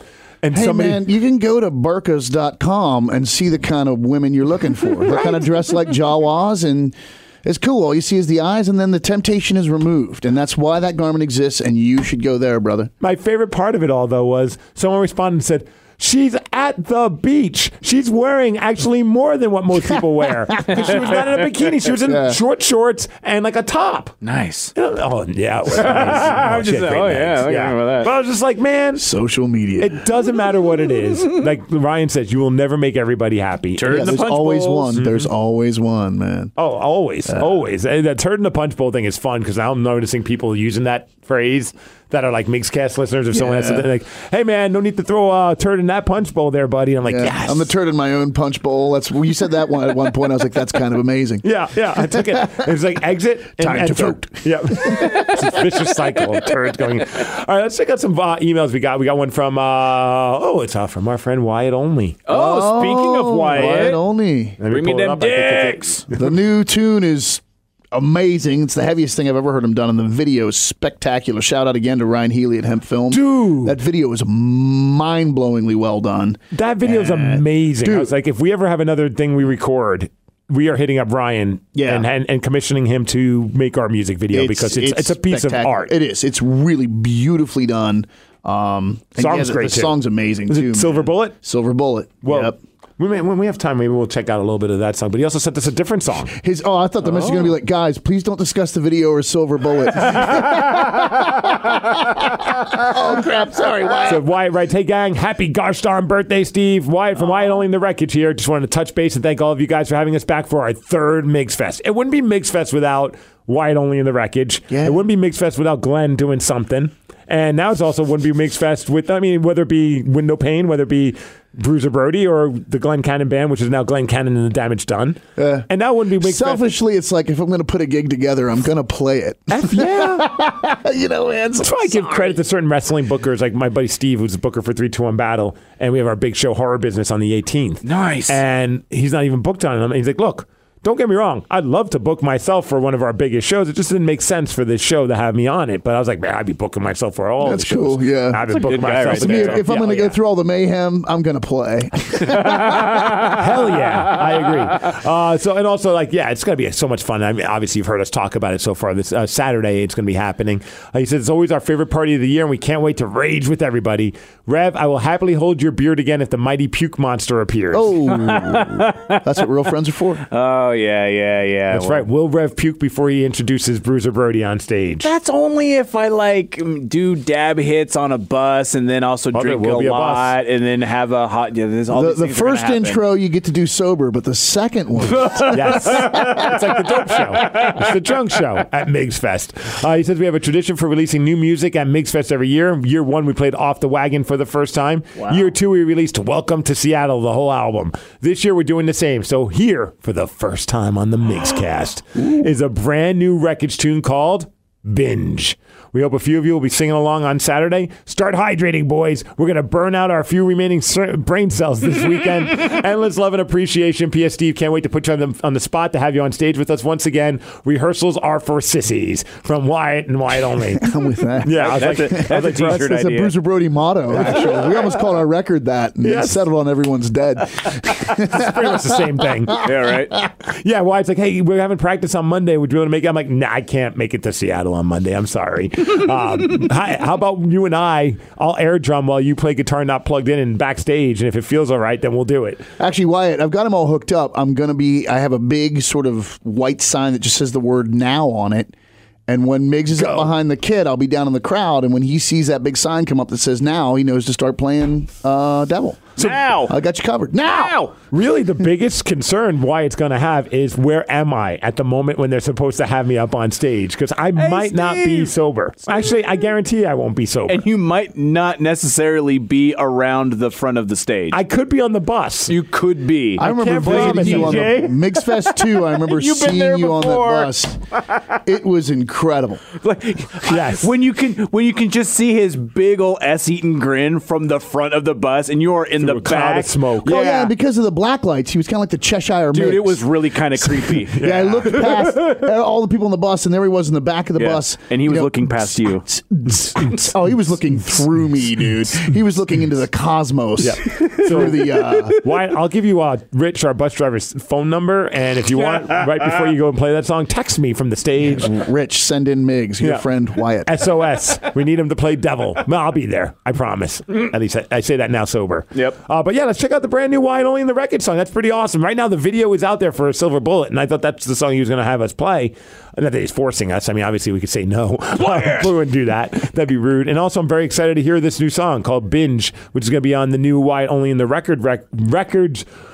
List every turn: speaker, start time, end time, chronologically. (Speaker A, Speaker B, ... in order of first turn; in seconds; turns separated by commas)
Speaker A: 0.4-1.0, Speaker B: 0.5-12.9, Speaker A: 5.0-5.5, Speaker A: 13.0-24.2, Speaker C: 20.6-21.4, Speaker B: 20.8-21.1, Speaker B: 22.0-22.4, Speaker C: 24.2-24.7, Speaker A: 24.7-29.0, Speaker C: 25.7-28.1, Speaker B: 28.9-30.0, Speaker A: 29.8-34.1, Speaker C: 33.7-35.0, Speaker B: 33.8-36.5, Speaker A: 35.0-35.3, Speaker A: 36.6-47.7, Speaker B: 43.3-43.8, Speaker B: 47.0-51.5, Speaker A: 51.4-62.2, Speaker B: 52.0-52.5, Speaker B: 53.6-55.3, Speaker C: 62.2-64.0, Speaker B: 62.3-64.6, Speaker A: 64.6-66.2, Speaker C: 64.6-66.1, Speaker B: 66.1-67.4, Speaker B: 67.9-78.1, Speaker A: 73.1-73.8, Speaker A: 76.5-85.9, Speaker B: 81.8-82.1, Speaker B: 84.3-92.6, Speaker A: 89.2-89.9, Speaker A: 90.5-91.3, Speaker A: 92.2-96.3, Speaker B: 96.3-104.2, Speaker A: 104.0-126.6, Speaker B: 114.7-115.0, Speaker B: 125.4-125.7, Speaker B: 126.2-132.3, Speaker A: 129.5-130.3, Speaker A: 131.6-150.1, Speaker C: 137.8-138.4, Speaker B: 147.4-148.4, Speaker C: 148.4-150.0, Speaker B: 149.0-153.2, Speaker C: 152.3-153.4, Speaker A: 153.3-168.0, Speaker B: 167.7-170.2, Speaker C: 168.1-169.4, Speaker C: 170.3-172.0, Speaker A: 171.7-175.1, Speaker C: 175.0-183.0, Speaker A: 179.3-180.3, Speaker B: 181.9-186.6, Speaker C: 185.2-186.4, Speaker A: 185.4-223.0, Speaker C: 187.3-187.7, Speaker B: 220.8-229.2, Speaker C: 221.5-223.3, Speaker C: 224.2-224.9, Speaker A: 226.0-226.4, Speaker A: 228.1-229.7, Speaker C: 229.5-230.1, Speaker A: 230.4-242.6, Speaker B: 242.8-248.7, Speaker B: 249.3-257.8, Speaker C: 250.0-250.3, Speaker C: 256.2-256.7, Speaker C: 257.4-257.9, Speaker A: 258.1-267.6, Speaker C: 264.4-265.3, Speaker C: 267.5-271.4, Speaker A: 271.3-272.6, Speaker C: 272.5-278.3, Speaker A: 273.4-274.8, Speaker B: 273.4-277.8, Speaker B: 278.4-279.6, Speaker C: 279.8-287.5, Speaker A: 280.4-280.9, Speaker A: 286.0-287.2, Speaker B: 287.1-290.0, Speaker C: 289.5-292.3, Speaker B: 290.7-302.2, Speaker A: 291.1-291.9, Speaker C: 294.3-296.0, Speaker A: 300.6-308.5, Speaker C: 300.9-302.1, Speaker C: 305.5-306.5, Speaker B: 308.2-310.8, Speaker A: 310.6-332.6, Speaker C: 325.1-325.7